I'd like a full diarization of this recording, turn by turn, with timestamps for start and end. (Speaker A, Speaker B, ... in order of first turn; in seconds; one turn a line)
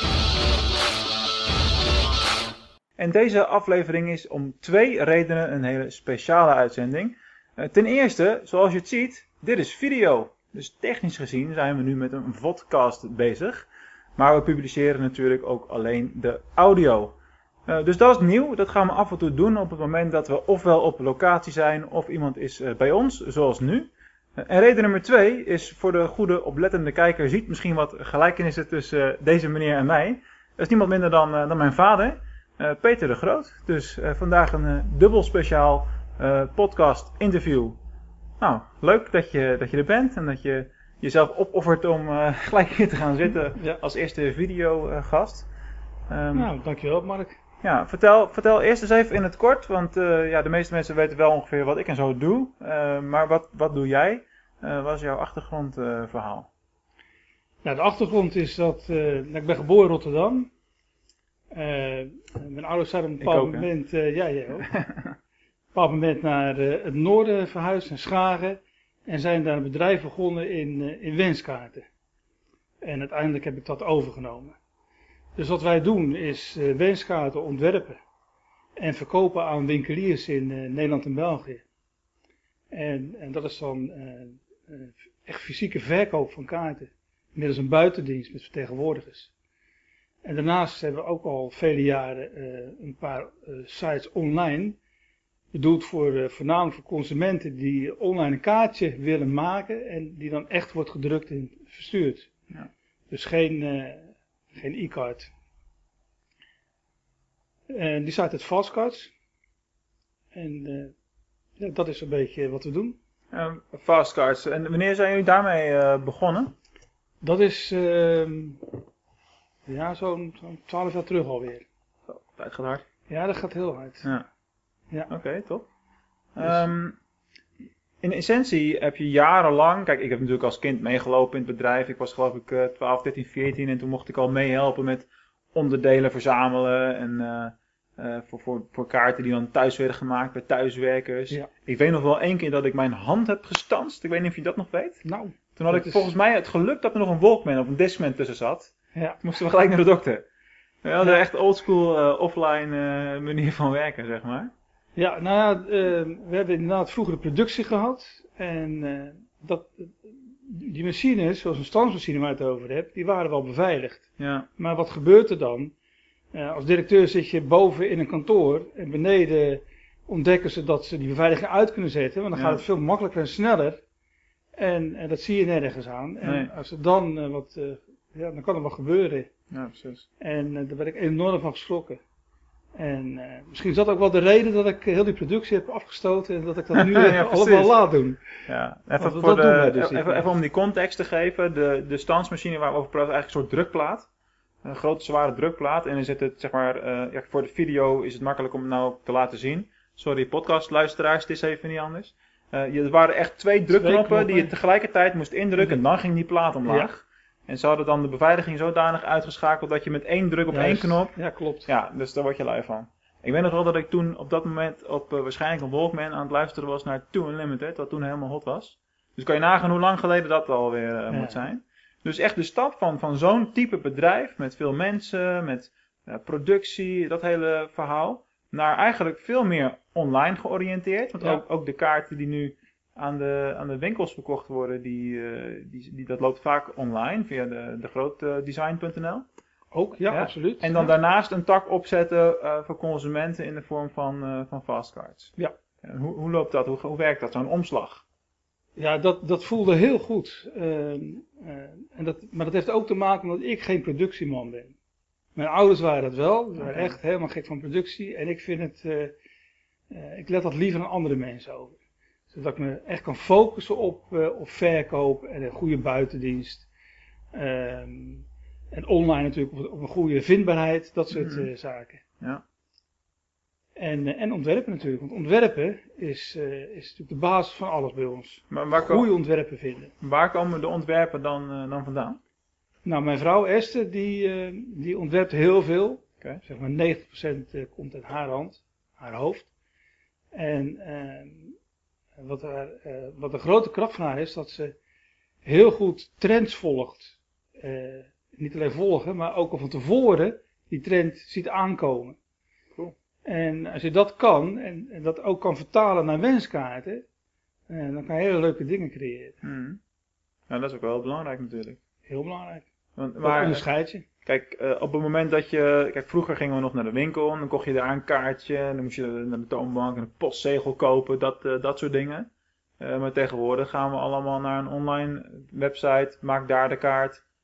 Speaker A: 3.0-37.8
Speaker A: 38.4-45.5
Speaker A: 46.1-46.5
Speaker B: 46.3-47.4
Speaker A: 47.6-56.5
Speaker B: 57.6-60.5
Speaker B: 61.5-64.7
Speaker A: 63.2-63.7
Speaker A: 64.7-65.1
Speaker B: 65.7-71.8
Speaker B: 72.8-74.5
Speaker B: 75.3-78.0
Speaker B: 78.8-81.6
Speaker B: 82.7-89.3
Speaker B: 90.2-94.8
Speaker B: 95.5-102.3
Speaker B: 103.1-105.3
Speaker B: 107.7-109.1
Speaker B: 110.3-110.9
Speaker B: 111.6-113.0
Speaker A: 113.3-116.5
Speaker B: 117.2-118.6
Speaker B: 119.7-121.6
Speaker A: 122.1-122.8
Speaker B: 123.1-124.1
Speaker A: 125.1-125.7
Speaker A: 126.3-127.0
Speaker A: 128.0-145.0
Speaker B: 145.0-146.1
Speaker A: 145.6-150.2
Speaker A: 150.8-154.5
Speaker B: 154.9-165.7
Speaker A: 164.2-164.5
Speaker B: 166.3-173.8
Speaker A: 172.3-172.6
Speaker B: 174.6-179.3
Speaker A: 176.2-176.5
Speaker A: 179.5-180.0
Speaker B: 180.2-182.0
Speaker B: 182.8-188.2
Speaker A: 186.7-187.7
Speaker A: 188.4-194.1
Speaker B: 189.0-190.2
Speaker A: 194.6-211.1
Speaker B: 203.7-204.5
Speaker B: 210.5-211.7
Speaker A: 211.7-239.2
Speaker B: 221.1-221.4
Speaker B: 239.7-240.9
Speaker A: 240.1-248.0
Speaker B: 248.8-254.7
Speaker B: 255.3-259.1
Speaker A: 256.6-257.0
Speaker B: 259.9-261.8
Speaker B: 262.3-266.7
Speaker B: 267.3-272.0
Speaker A: 271.1-271.5
Speaker B: 273.8-279.9
Speaker A: 278.5-279.1
Speaker A: 280.0-282.2
Speaker B: 282.8-289.5
Speaker B: 290.3-291.5
Speaker B: 292.2-294.8
Speaker B: 295.4-302.2
Speaker B: 303.2-307.0
Speaker B: 307.7-309.4
Speaker A: 309.4-309.8
Speaker A: 310.5-311.8
Speaker B: 312.1-312.7
Speaker A: 312.9-313.6
Speaker B: 313.2-314.1
Speaker A: 314.2-322.3
Speaker A: 322.8-327.2